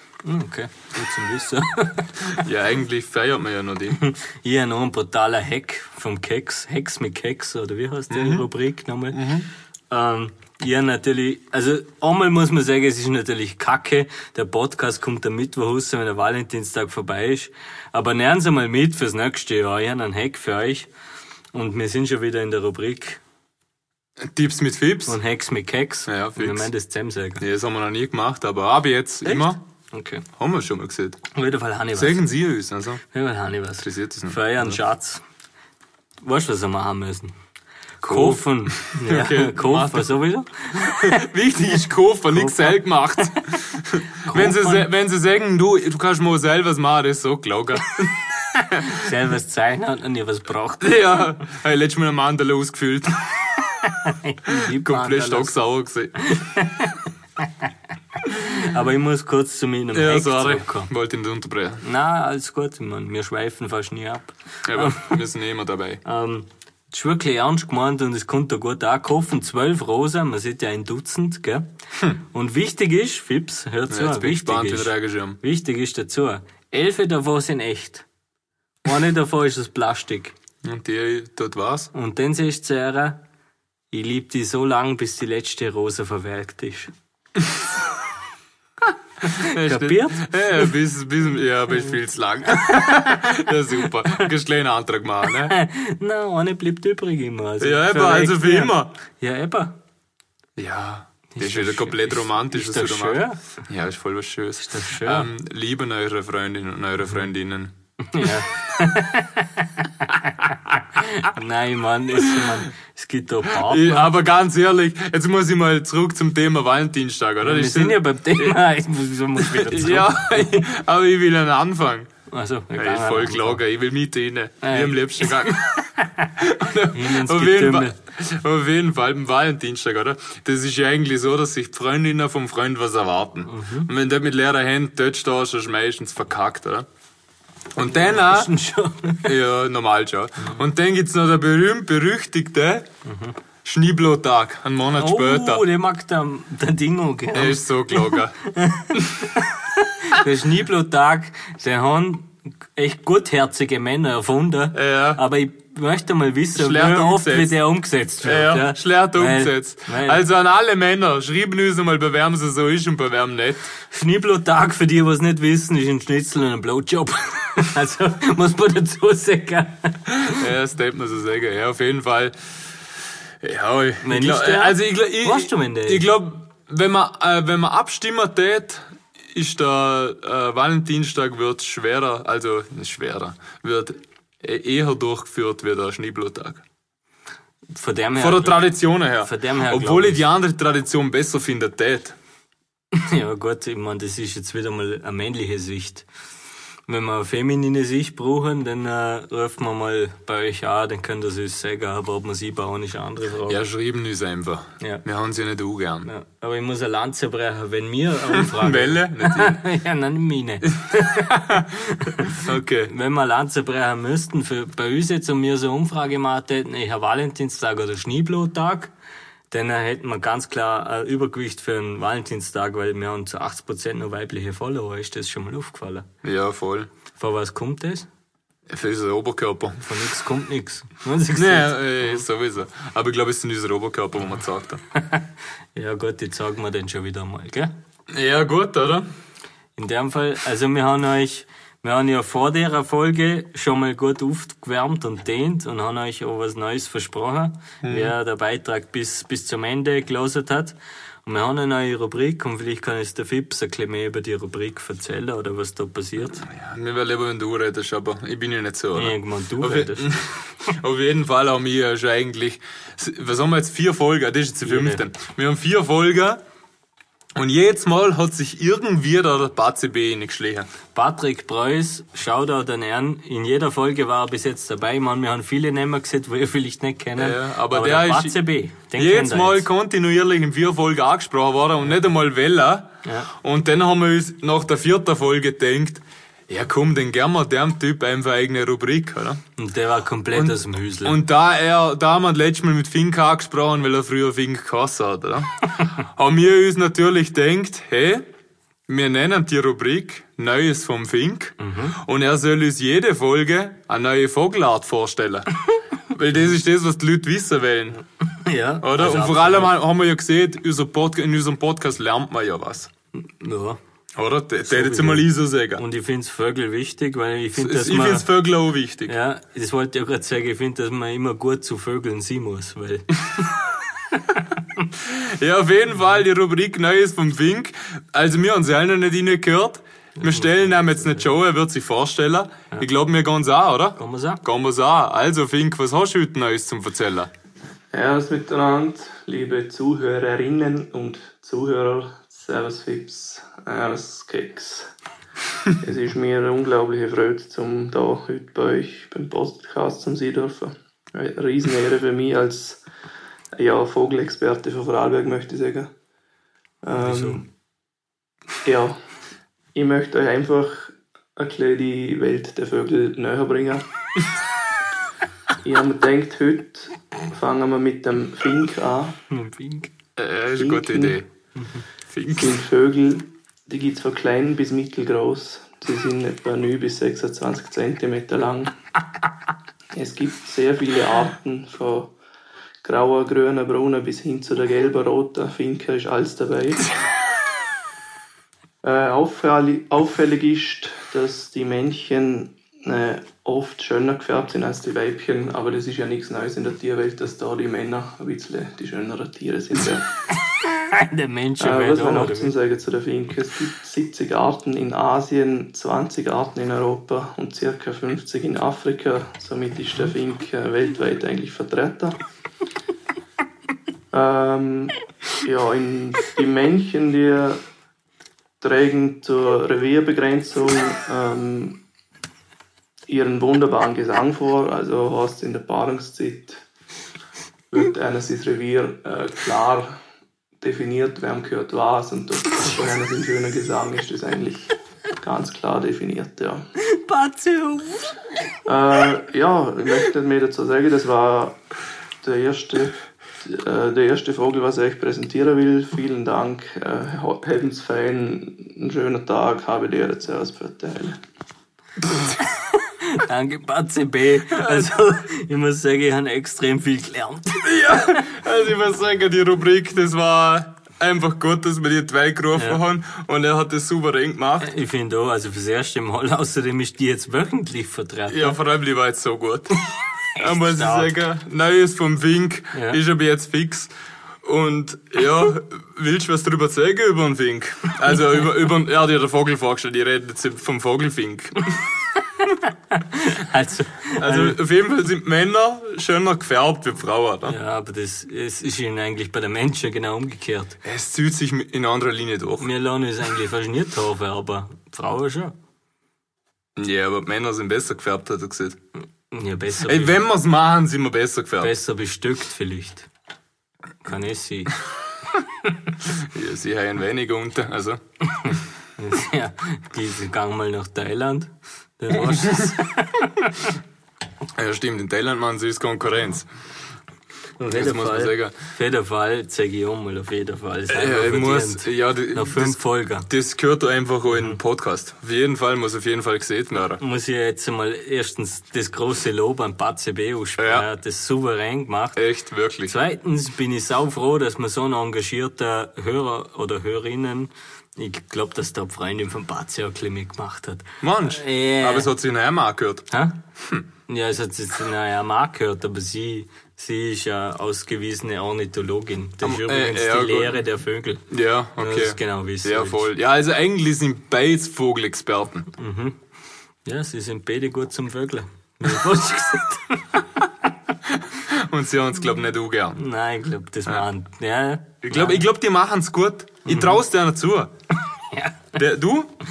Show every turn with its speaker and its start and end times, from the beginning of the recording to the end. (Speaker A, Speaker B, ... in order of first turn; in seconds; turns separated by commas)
Speaker A: 0.2-2.1, Speaker B: 2.2-4.0, Speaker A: 4.0-9.2, Speaker B: 8.1-8.4, Speaker B: 9.1-9.5, Speaker A: 9.9-20.9, Speaker A: 21.5-23.2, Speaker B: 24.2-25.2, Speaker A: 25.1-27.4, Speaker B: 26.1-26.7, Speaker B: 27.4-29.6, Speaker A: 29.2-30.2, Speaker B: 30.4-31.2, Speaker A: 31.3-32.2, Speaker B: 31.9-33.0, Speaker A: 33.1-35.2, Speaker B: 33.8-34.8, Speaker A: 36.2-37.3, Speaker B: 38.0-40.1, Speaker A: 38.0-41.2, Speaker B: 40.8-49.1, Speaker A: 42.3-43.5, Speaker A: 44.2-44.9, Speaker A: 48.6-51.2, Speaker B: 50.8-53.7, Speaker A: 53.8-55.5, Speaker B: 54.5-56.2, Speaker A: 56.2-57.7, Speaker A: 58.3-60.9, Speaker B: 59.9-61.8, Speaker A: 61.8-65.2, Speaker B: 64.7-66.0, Speaker A: 66.0-71.7, Speaker A: 72.2-78.0, Speaker B: 73.9-75.4, Speaker A: 78.8-80.3, Speaker B: 80.6-81.9, Speaker A: 81.9-83.2, Speaker A: 83.9-86.9, Speaker B: 89.2-95.5, Speaker A: 89.2-90.7, Speaker A: 92.7-93.3, Speaker A: 95.4-99.8, Speaker B: 97.6-98.9, Speaker B: 100.6-107.7, Speaker A: 101.3-103.4, Speaker A: 104.6-105.3, Speaker A: 108.0-114.1, Speaker B: 112.2-112.6, Speaker B: 113.5-118.5, Speaker A: 117.4-120.7, Speaker B: 119.3-122.1, Speaker A: 122.3-123.6, Speaker B: 122.7-136.9, Speaker A: 124.6-125.2, Speaker A: 126.0-126.3, Speaker A: 126.9-128.0, Speaker A: 133.5-133.9, Speaker B: 137.8-138.5, Speaker A: 137.8-139.3, Speaker B: 139.2-142.9, Speaker A: 143.0-143.3, Speaker B: 143.6-145.6, Speaker A: 144.9-160.2, Speaker B: 147.3-148.3, Speaker B: 154.7-155.2, Speaker B: 156.5-157.6, Speaker B: 158.2-163.7, Speaker A: 163.9-170.4, Speaker B: 170.3-172.3, Speaker B: 173.4-186.6, Speaker A: 174.0-176.1, Speaker A: 187.7-190.2, Speaker B: 188.2-192.2, Speaker A: 192.9-196.1, Speaker A: 196.9-203.6, Speaker B: 203.5-206.1, Speaker A: 206.0-218.9, Speaker B: 208.3-209.6, Speaker B: 211.1-211.7, Speaker B: 212.3-212.9, Speaker A: 219.5-226.1, Speaker B: 226.2-226.9, Speaker A: 227.1-228.1, Speaker B: 228.7-229.9, Speaker A: 229.8-232.2, Speaker B: 231.3-234.8, Speaker A: 234.9-237.7, Speaker B: 238.1-239.1, Speaker A: 239.8-256.4, Speaker B: 247.8-248.1, Speaker B: 256.4-266.4, Speaker A: 258.9-260.1, Speaker A: 264.6-265.0, Speaker B: 267.4-270.7, Speaker A: 270.9-279.7, Speaker B: 277.2-278.4, Speaker B: 278.9-289.4, Speaker A: 283.0-283.3, Speaker A: 289.6-291.2, Speaker B: 290.3-298.2, Speaker B: 298.9-305.6, Speaker A: 301.6-302.0, Speaker B: 306.1-308.0, Speaker A: 308.4-309.7, Speaker B: 308.8-312.9, Speaker A: 313.2-313.8, Speaker B: 314.1-315.8, Speaker A: 314.7-318.3, Speaker B: 317.6-319.1, Speaker A: 319.1-323.5, Speaker A: 324.1-324.4, Speaker B: 324.9-337.3, Speaker A: 330.2-331.2, Speaker A: 333.9-334.4, Speaker C: 337.9-344.9, Speaker C: 345.7-352.8, Speaker C: 353.5-355.9, Speaker C: 356.8-357.5, Speaker A: 357.0-357.4, Speaker C: 358.6-359.0, Speaker C: 359.7-363.9, Speaker C: 365.6-369.2, Speaker A: 369.3-369.9, Speaker B: 370.2-371.3, Speaker C: 370.6-371.2, Speaker A: 371.6-371.8, Speaker B: 372.1-372.6, Speaker C: 372.3-378.7, Speaker C: 379.9-382.1, Speaker C: 382.8-386.9, Speaker C: 388.8-400.0, Speaker A: 400.6-402.5, Speaker C: 401.6-412.2, Speaker C: 414.1-417.6, Speaker C: 418.6-421.8, Speaker C: 423.1-426.6, Speaker C: 427.7-429.9, Speaker C: 430.6-436.6, Speaker A: 436.8-438.2, Speaker C: 438.6-441.6, Speaker C: 442.2-451.2, Speaker A: 452.2-458.2, Speaker B: 454.6-454.9, Speaker B: 457.6-464.7, Speaker A: 464.6-468.6, Speaker B: 468.3-469.7, Speaker A: 470.4-471.1, Speaker B: 470.4-473.9, Speaker A: 472.7-473.0, Speaker B: 474.4-481.8, Speaker A: 482.9-484.6, Speaker B: 484.2-487.6, Speaker A: 487.4-490.8, Speaker B: 490.8-492.7, Speaker A: 492.6-495.5, Speaker B: 496.8-498.8, Speaker A: 499.3-500.2, Speaker B: 499.8-501.7, Speaker A: 501.6-503.1, Speaker A: 504.0-504.8, Speaker B: 506.1-508.0, Speaker A: 508.3-513.7, Speaker B: 512.2-512.6, Speaker B: 514.5-516.5, Speaker A: 517.6-523.3, Speaker B: 517.6-518.5, Speaker B: 520.9-527.0, Speaker A: 524.3-524.6, Speaker A: 527.0-532.2, Speaker B: 530.6-530.9, Speaker B: 532.1-532.9, Speaker A: 532.8-542.1, Speaker B: 541.0-543.9, Speaker A: 543.1-543.4, Speaker A: 544.1-551.2, Speaker B: 549.4-550.6, Speaker B: 551.3-555.7, Speaker A: 551.8-553.0, Speaker A: 555.8-556.2, Speaker A: 556.8-560.5, Speaker B: 561.1-563.0, Speaker A: 562.9-565.4, Speaker B: 565.0-567.7, Speaker A: 566.6-567.0, Speaker A: 568.1-568.7, Speaker B: 568.7-569.3